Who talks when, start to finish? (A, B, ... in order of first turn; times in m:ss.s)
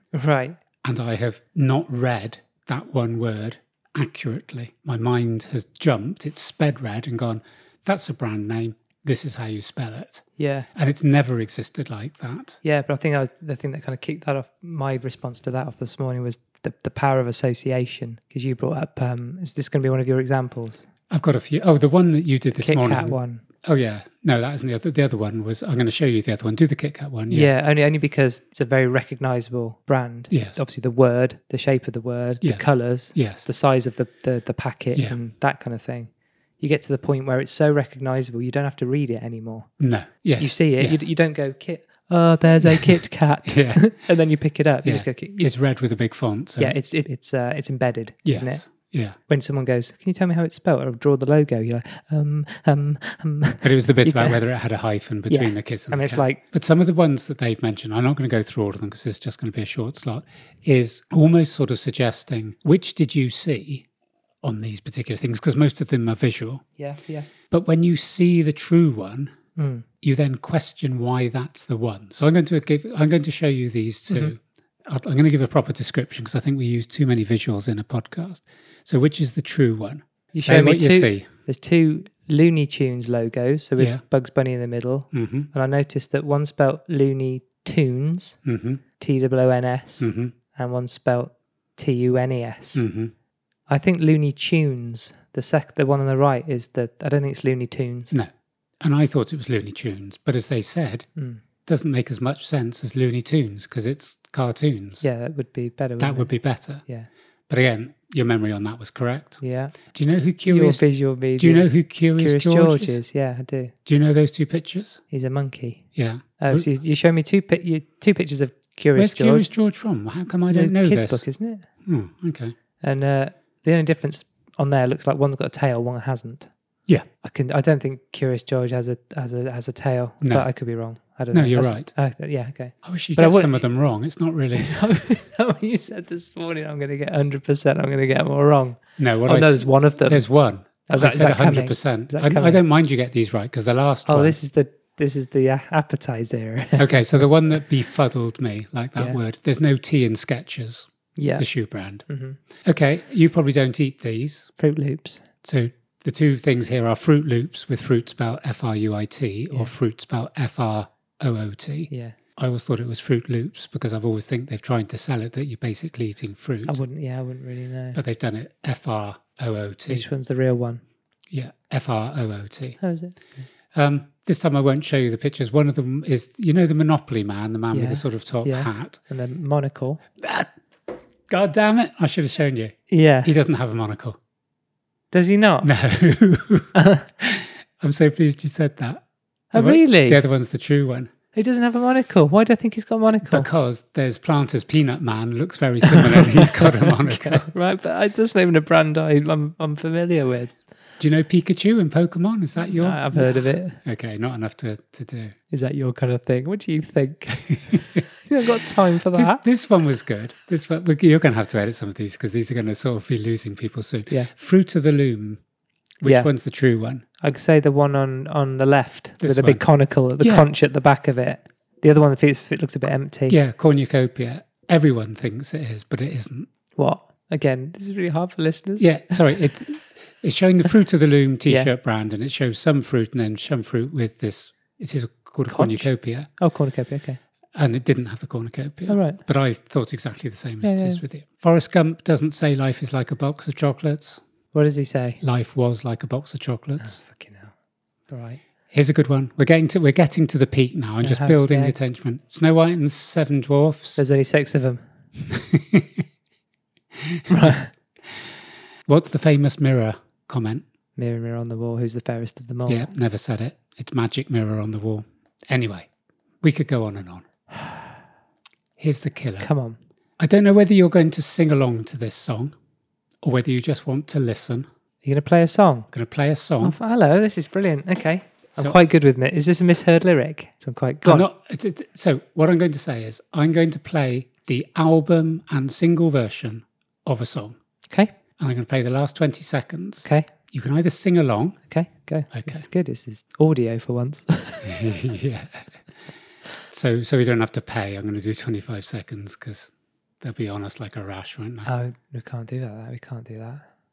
0:00.1-0:00.6 A
0:00.8-0:12.6 B
0:10.4-0:10.7 A
0:12.6-0:20.9 A
0:21.1-0:27.5 B
0:22.6-0:23.4 A
0:27.3-0:39.7 A
0:30.3-0:30.6 B
0:32.4-0:33.5 B
0:39.8-0:41.1 B
0:40.4-0:45.5 A
0:43.5-0:44.0 B
0:44.8-0:46.8 B
0:46.6-0:48.7 A
0:48.2-0:49.2 B
0:49.3-0:54.4 A
0:53.6-1:03.9 B
0:55.3-0:56.4 A
1:04.4-1:06.6 B
1:06.8-1:07.3 A
1:07.5-1:09.3 B
1:09.6-1:09.8 A
1:10.0-1:21.3 B
1:20.3-1:28.4 A
1:25.1-1:25.5 B
1:28.4-1:28.8 B
1:29.0-1:32.8 A
1:30.0-1:30.3 B
1:32.8-1:33.1 B
1:33.7-1:38.1 A
1:38.1-1:41.1 B
1:41.2-1:41.4 A
1:41.7-1:45.0 B
1:45.0-1:46.3 A
1:46.0-1:46.8 B
1:46.8-1:47.1 A
1:47.5-1:50.8 B
1:49.4-1:49.8 A
1:50.5-1:53.7 A
1:51.4-1:53.0 B
1:53.9-1:55.0 B
1:55.1-1:55.8 A
1:56.0-1:56.7 B
1:56.4-1:59.5 A
1:59.0-2:01.2 B
2:00.5-2:01.7 A
2:01.8-2:02.6 B
2:02.8-2:06.5 A
2:07.2-2:13.6 A
2:10.2-2:10.5 B
2:11.3-2:11.9 B
2:12.8-2:14.9 B
2:14.6-2:20.3 A
2:19.0-2:24.4 B
2:20.9-2:22.6 A
2:24.1-2:27.3 A
2:26.8-2:32.0 B
2:31.2-2:31.4 A
2:32.1-2:32.4 A
2:32.6-2:34.5 B
2:34.6-2:35.2 A
2:35.4-2:46.8 B
2:41.9-2:42.2 A
2:46.7-2:48.0 A
2:48.0-2:50.1 B
2:49.9-2:50.8 A
2:51.3-2:52.8 B
2:52.8-2:53.5 A
2:53.7-2:59.0 B
2:57.7-3:00.0 A
3:00.2-3:00.5 B
3:01.3-3:04.2 B
3:02.9-3:03.3 A
3:05.1-3:05.7 A
3:05.6-3:09.0 B
3:06.8-3:07.1 A
3:09.5-3:10.2 A
3:09.6-3:11.1 B
3:11.3-3:13.5 A
3:13.2-3:17.4 B
3:15.9-3:20.6 A
3:21.0-3:25.4 B
3:22.6-3:23.8 A
3:25.5-3:29.4 A
3:27.7-3:28.0 B
3:29.1-3:35.4 B
3:36.0-3:37.0 B
3:37.2-3:43.4 A
3:39.2-3:39.6 B
3:40.2-3:40.5 B
3:43.3-3:46.5 B
3:46.8-3:49.5 A
3:48.8-3:56.3 B
3:55.5-3:57.2 A
3:57.5-4:04.2 B
3:58.9-3:59.2 A
4:00.6-4:01.0 A
4:04.5-4:05.2 A
4:05.2-4:07.0 B
4:06.8-4:07.5 A
4:08.1-4:08.4 A
4:08.7-4:14.0 B
4:11.0-4:11.8 A
4:14.0-4:14.8 A
4:15.3-4:16.0 B
4:17.0-4:17.3 B
4:17.3-4:17.7 A
4:18.9-4:20.6 B
4:21.0-4:22.9 A
4:22.7-4:25.9 B
4:26.4-4:27.3 B
4:27.5-4:27.9 A
4:28.8-4:29.5 B
4:29.4-4:29.8 A
4:30.2-4:32.6 B
4:33.2-4:34.7 B
4:35.0-4:35.9 A
4:35.9-4:36.8 B
4:36.6-4:41.3 A
4:41.0-4:47.6 B
4:47.9-4:48.1 A
4:48.4-4:51.6 B
4:50.0-4:50.3 A
4:51.7-4:54.8 A
4:52.3-4:52.6 B
4:54.6-4:55.8 B
4:56.7-5:01.7 B
5:01.6-5:03.6 A